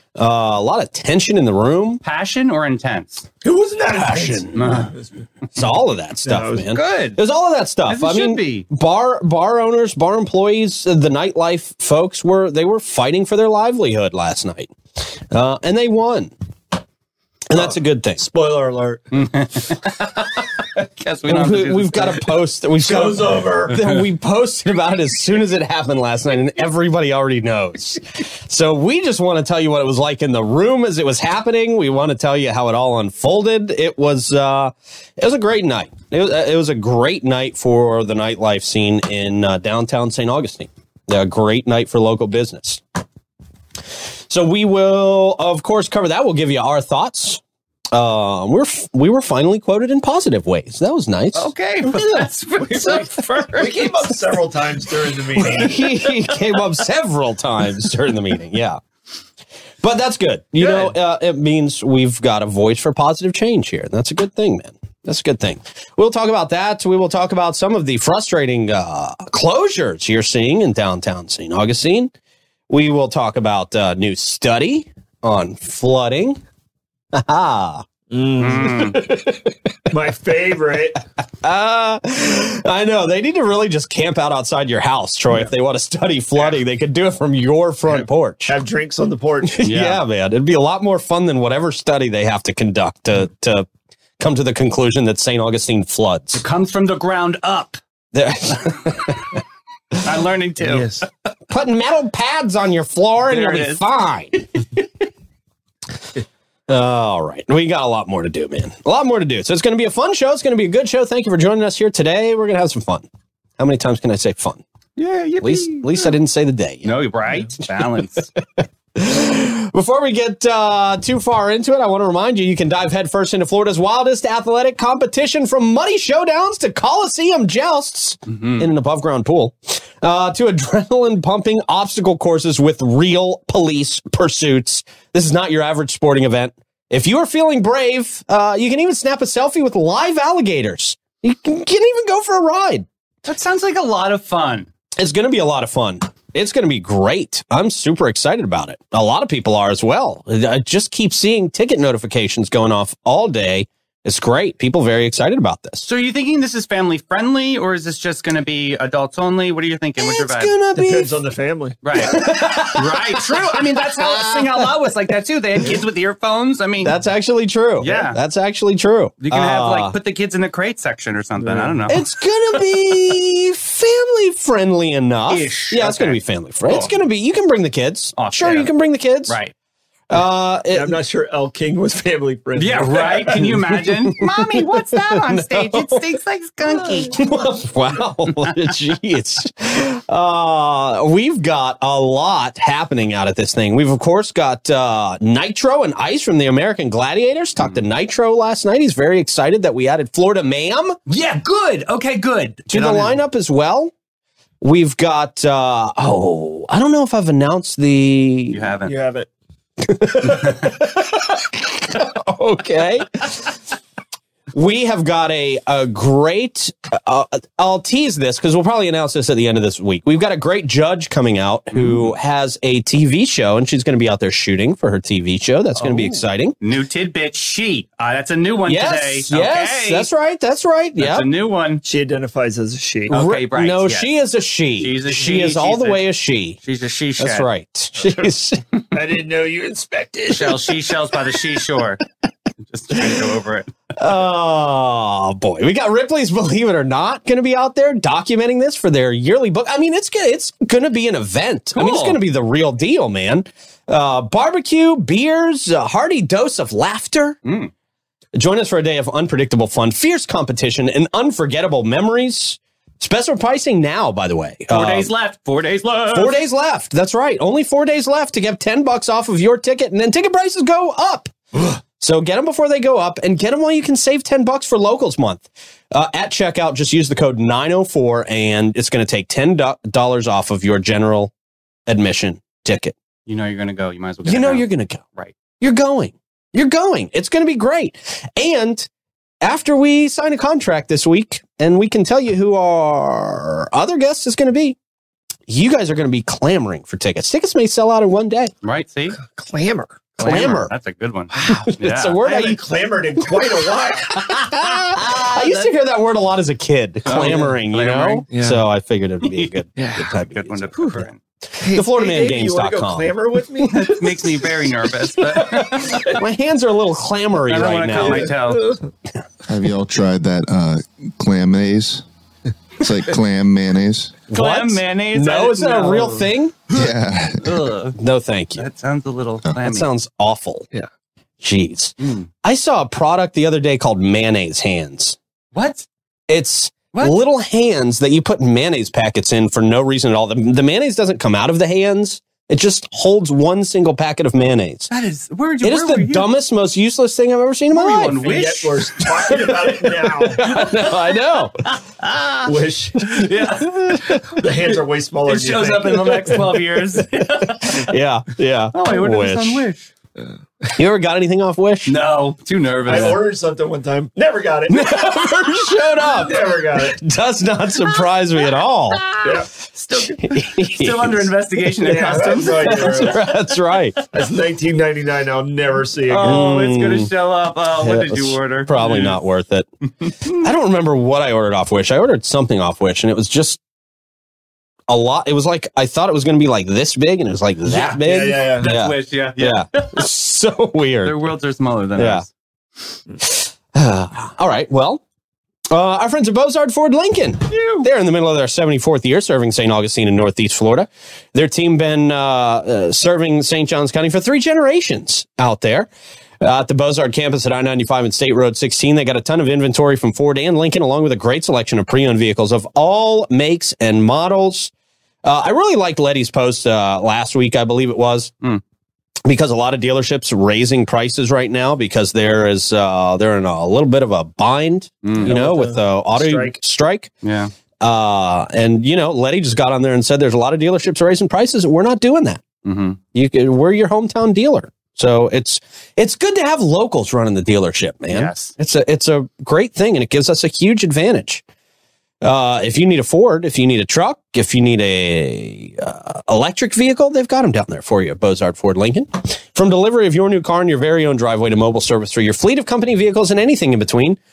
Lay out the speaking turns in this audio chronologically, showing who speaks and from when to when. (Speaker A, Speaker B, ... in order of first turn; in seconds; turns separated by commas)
Speaker A: 0.2-2.0, Speaker B: 2.0-3.2, Speaker C: 3.4-5.2, Speaker A: 3.9-4.9, Speaker B: 4.5-4.9, Speaker A: 5.5-16.3, Speaker C: 6.2-6.7, Speaker B: 6.7-7.2, Speaker B: 7.9-8.7, Speaker A: 17.5-18.3, Speaker C: 17.5-19.3, Speaker B: 19.1-22.3, Speaker A: 21.3-42.8, Speaker C: 22.8-23.8, Speaker A: 44.3-47.4, Speaker A: 47.9-53.1, Speaker B: 51.4-54.0, Speaker C: 53.5-55.9, Speaker A: 55.4-58.8, Speaker B: 55.5-56.1, Speaker A: 59.8-72.1, Speaker B: 60.6-61.0, Speaker A: 72.7-76.4, Speaker A: 77.1-77.9, Speaker C: 78.1-79.0, Speaker B: 78.4-79.0, Speaker A: 78.6-79.7, Speaker C: 79.9-81.0, Speaker A: 81.4-88.5, Speaker C: 87.9-89.6, Speaker A: 89.4-93.7, Speaker B: 89.6-90.0, Speaker A: 94.2-96.4, Speaker B: 96.4-97.8, Speaker A: 98.1-99.3, Speaker B: 100.0-101.1, Speaker C: 100.6-101.1, Speaker A: 101.5-104.6, Speaker B: 103.3-103.8, Speaker A: 106.7-114.6, Speaker B: 115.0-116.1, Speaker A: 115.4-117.0, Speaker B: 116.8-118.3, Speaker A: 118.4-142.9, Speaker B: 128.3-128.7, Speaker B: 143.2-144.7, Speaker A: 145.0-155.9, Speaker B: 155.9-160.5, Speaker A: 160.0-161.2, Speaker C: 160.8-161.8, Speaker B: 161.8-167.0, Speaker A: 162.0-164.8, Speaker A: 166.8-169.9, Speaker B: 167.8-168.2, Speaker C: 167.8-168.1, Speaker B: 169.2-172.0, Speaker C: 171.4-171.9, Speaker A: 171.9-179.4, Speaker B: 175.3-176.9, Speaker B: 178.2-178.7, Speaker B: 179.3-179.5, Speaker A: 180.1-181.0, Speaker C: 180.7-183.6, Speaker B: 182.6-187.2, Speaker A: 183.3-186.1, Speaker A: 187.1-201.0, Speaker B: 201.1-203.2, Speaker A: 202.7-203.9, Speaker A: 204.6-208.7, Speaker B: 208.5-208.9, Speaker C: 208.8-209.3, Speaker A: 209.8-213.4, Speaker A: 214.5-226.6, Speaker B: 221.7-222.1, Speaker B: 226.6-230.1, Speaker A: 228.7-231.3, Speaker B: 231.0-231.8, Speaker C: 231.8-233.1, Speaker B: 233.1-234.1, Speaker A: 233.1-236.6, Speaker B: 234.8-236.0, Speaker B: 236.6-237.5, Speaker A: 237.2-238.6, Speaker C: 238.9-240.9, Speaker B: 240.3-242.0, Speaker B: 242.6-243.7, Speaker A: 244.0-257.4, Speaker B: 251.8-252.2, Speaker B: 257.4-257.7, Speaker A: 258.4-265.1, Speaker B: 264.7-266.4, Speaker A: 266.1-281.3, Speaker A: 281.9-283.0, Speaker B: 283.3-285.3, Speaker A: 284.2-285.0, Speaker A: 285.6-288.9, Speaker A: 289.4-294.8, Speaker A: 295.5-298.5, Speaker B: 298.6-299.2, Speaker C: 299.2-300.3, Speaker B: 300.2-302.2, Speaker A: 300.2-300.7, Speaker C: 301.3-301.7, Speaker A: 301.4-311.0, Speaker C: 302.2-305.4, Speaker B: 307.1-308.2, Speaker C: 307.1-307.6, Speaker C: 308.3-308.6, Speaker B: 309.2-309.6, Speaker C: 309.8-310.2, Speaker B: 310.1-311.2, Speaker C: 310.7-311.1, Speaker A: 311.5-313.1, Speaker C: 311.6-314.3, Speaker B: 313.6-316.2, Speaker A: 316.1-318.3, Speaker B: 317.5-318.8, Speaker C: 317.9-318.8, Speaker D: 319.5-322.0, Speaker D: 322.8-324.1, Speaker A: 324.3-326.6, Speaker B: 324.3-326.3, Speaker D: 326.7-327.7, Speaker B: 327.4-328.0, Speaker A: 328.0-328.6, Speaker B: 328.6-329.9, Speaker A: 329.6-330.7, Speaker A: 331.4-335.2, Speaker B: 332.0-332.3, Speaker B: 335.5-335.9, Speaker A: 336.3-344.9, Speaker B: 344.9-346.3, Speaker A: 345.6-348.2, Speaker B: 347.7-349.7, Speaker C: 348.1-350.6, Speaker A: 350.2-351.6, Speaker B: 350.4-354.2, Speaker C: 352.4-353.3, Speaker A: 353.6-354.0, Speaker C: 354.1-356.6, Speaker B: 355.3-357.9, Speaker A: 357.9-359.6, Speaker B: 358.7-359.9, Speaker A: 360.8-361.9, Speaker B: 361.9-363.2, Speaker C: 362.9-367.0, Speaker A: 362.9-363.1, Speaker A: 364.7-369.1, Speaker B: 369.0-373.3, Speaker C: 369.2-369.5, Speaker A: 370.1-371.3, Speaker C: 371.8-373.2, Speaker A: 372.6-374.0, Speaker C: 374.1-376.5, Speaker B: 376.1-379.2, Speaker A: 376.2-377.1, Speaker A: 377.8-379.7, Speaker B: 380.0-380.4, Speaker A: 380.4-383.6, Speaker A: 384.9-391.3, Speaker B: 387.7-390.1, Speaker C: 388.0-388.7, Speaker B: 391.0-392.3, Speaker A: 392.0-392.2, Speaker A: 393.2-395.0, Speaker A: 395.7-414.7, Speaker B: 397.5-397.9, Speaker A: 415.2-418.3, Speaker A: 419.2-427.1, Speaker B: 425.0-425.3, Speaker C: 425.2-426.6, Speaker B: 427.2-427.5, Speaker A: 427.8-432.4, Speaker B: 432.6-433.0, Speaker A: 433.1-441.4, Speaker B: 438.1-438.5, Speaker A: 442.2-454.2